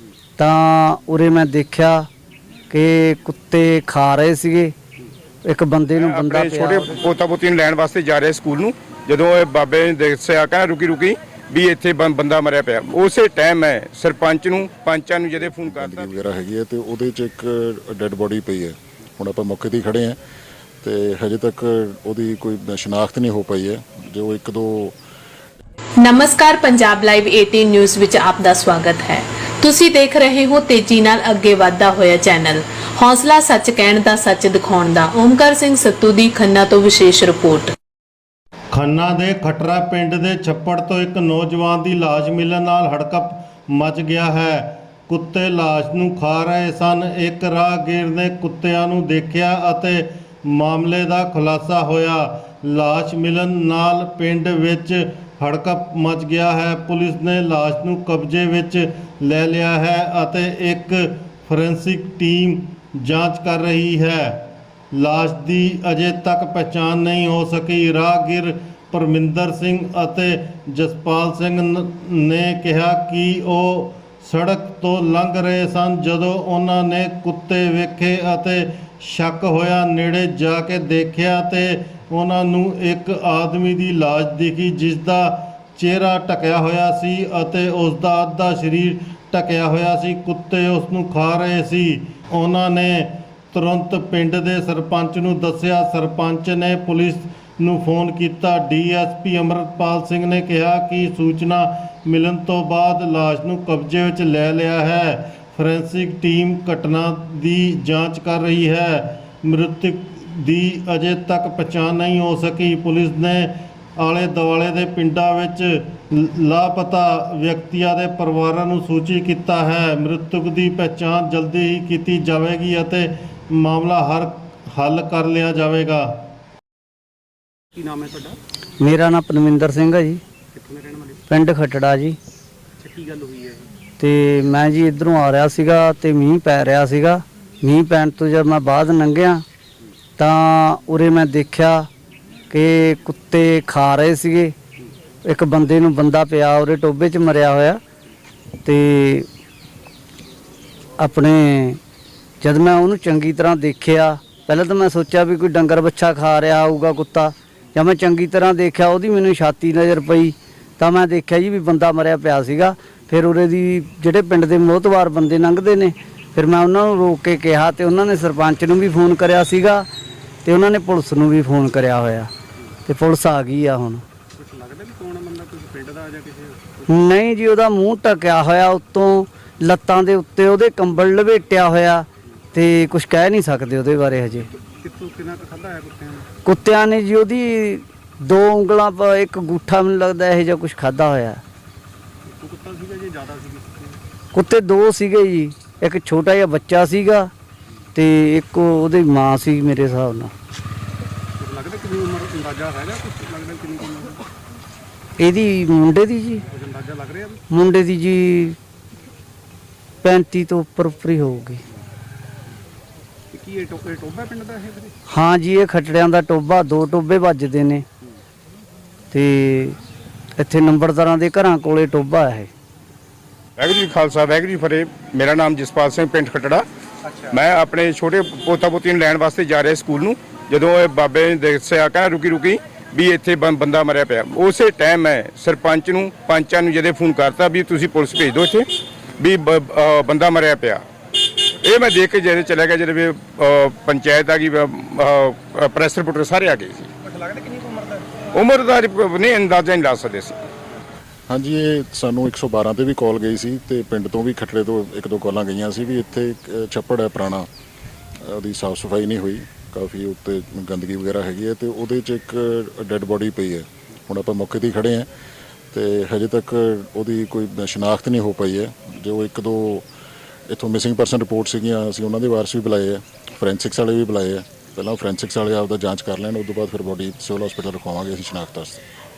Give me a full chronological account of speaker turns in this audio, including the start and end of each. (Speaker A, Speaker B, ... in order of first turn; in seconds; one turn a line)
Speaker A: 0.4-2.1
Speaker A: 2.7-4.7
Speaker A: 5.5-7.0
Speaker B: 5.9-16.1
Speaker C: 15.6-20.2
Speaker C: 20.8-25.0
Speaker D: 26.0-37.7
Speaker E: 38.7-126.2
Speaker F: 127.8-128.4
Speaker A: 128.8-130.2
Speaker F: 130.5-131.2
Speaker A: 131.3-132.2
Speaker F: 132.8-133.7
Speaker A: 134.0-139.4
Speaker A: 140.2-141.9
Speaker A: 142.5-144.6
Speaker A: 145.3-147.8
Speaker A: 148.6-149.3
Speaker A: 151.0-151.8
Speaker A: 152.4-169.9
Speaker A: 170.4-172.3
Speaker A: 172.9-174.0
Speaker F: 174.3-176.9
Speaker A: 176.9-184.5
Speaker F: 184.5-186.3
Speaker A: 186.4-191.4
Speaker F: 192.3-194.0
Speaker A: 194.3-197.3
Speaker A: 197.9-200.3
Speaker F: 201.4-204.2
Speaker A: 205.2-206.4
Speaker F: 206.5-207.4
Speaker A: 207.5-208.6
Speaker A: 210.0-211.6
Speaker F: 213.3-214.9
Speaker A: 215.1-217.8
Speaker A: 219.1-219.8
Speaker A: 220.4-222.5
Speaker B: 223.6-226.7
Speaker B: 227.3-238.7
Speaker B: 239.2-240.8
Speaker B: 241.6-246.9
Speaker F: 247.2-248.2
Speaker B: 248.3-250.3
Speaker C: 251.3-257.5
Speaker C: 258.2-265.1
Speaker C: 265.7-269.9
Speaker C: 270.5-278.8